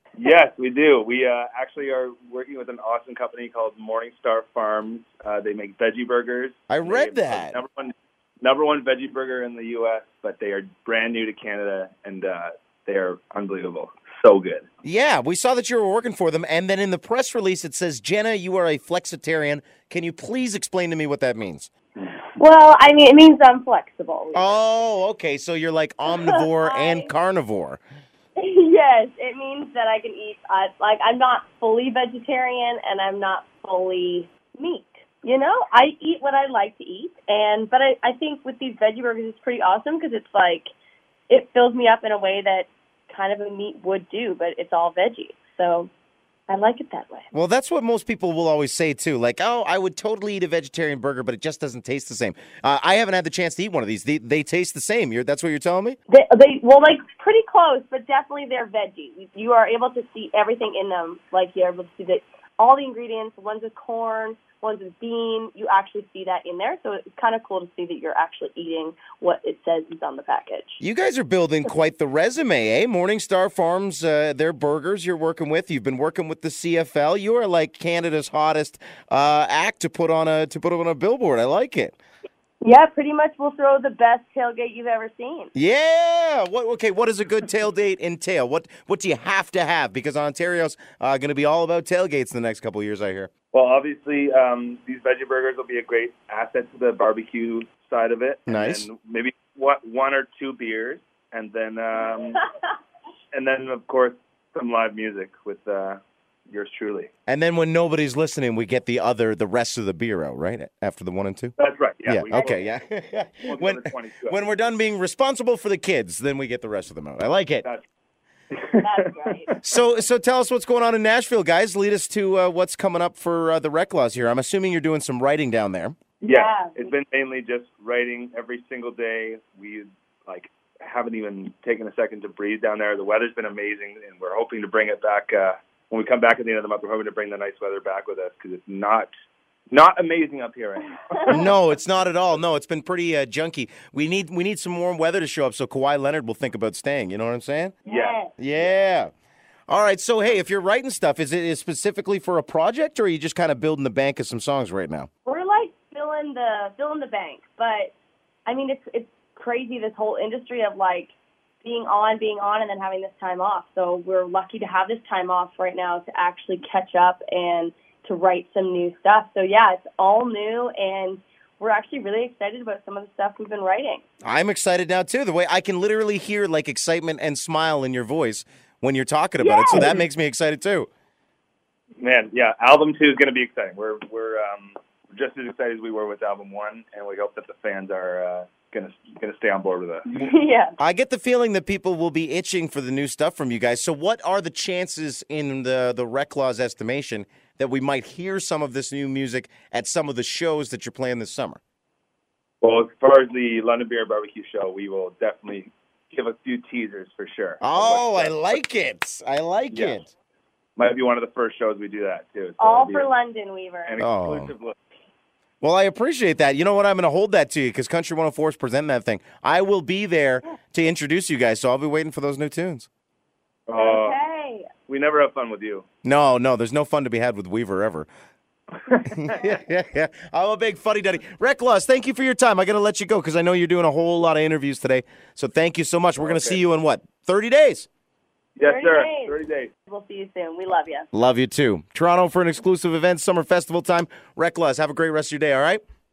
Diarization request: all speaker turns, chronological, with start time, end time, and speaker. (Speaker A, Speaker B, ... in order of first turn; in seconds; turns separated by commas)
Speaker A: 0.2-14.7, Speaker B: 6.7-7.6, Speaker B: 14.8-21.7, Speaker C: 22.4-24.6, Speaker B: 24.3-27.8, Speaker C: 26.1-27.1, Speaker C: 28.4-40.7, Speaker C: 41.3-45.9, Speaker C: 46.5-47.3, Speaker B: 47.3-56.0, Speaker C: 56.1-70.8, Speaker B: 70.8-82.0, Speaker C: 82.6-85.5, Speaker B: 85.5-93.3, Speaker A: 93.5-102.4, Speaker B: 98.5-98.9, Speaker A: 103.3-107.1, Speaker B: 107.3-111.5, Speaker A: 111.6-112.7, Speaker B: 112.1-117.7, Speaker A: 113.4-114.5, Speaker A: 118.5-118.9, Speaker C: 118.8-119.5, Speaker B: 119.6-126.0, Speaker C: 126.2-126.9, Speaker A: 126.2-139.1, Speaker A: 139.7-141.3, Speaker B: 141.3-147.7, Speaker C: 147.8-148.9, Speaker A: 147.9-148.2, Speaker B: 148.4-149.1, Speaker B: 149.7-155.1, Speaker C: 155.3-157.9, Speaker C: 158.5-174.0, Speaker B: 174.2-180.9, Speaker C: 179.4-180.0, Speaker A: 179.7-180.0, Speaker A: 182.0-190.3, Speaker C: 190.1-190.8, Speaker B: 190.8-201.6, Speaker A: 202.6-208.6, Speaker B: 207.6-210.1, Speaker A: 209.7-210.0, Speaker A: 210.8-213.1, Speaker C: 212.6-214.0, Speaker A: 213.9-214.8, Speaker B: 214.0-214.5, Speaker B: 215.6-222.9, Speaker A: 223.7-224.2, Speaker C: 223.8-224.7, Speaker A: 224.9-225.9, Speaker B: 226.0-228.1, Speaker B: 229.1-237.9, Speaker A: 236.2-236.6, Speaker A: 238.6-239.7, Speaker C: 238.6-241.1, Speaker B: 241.1-245.8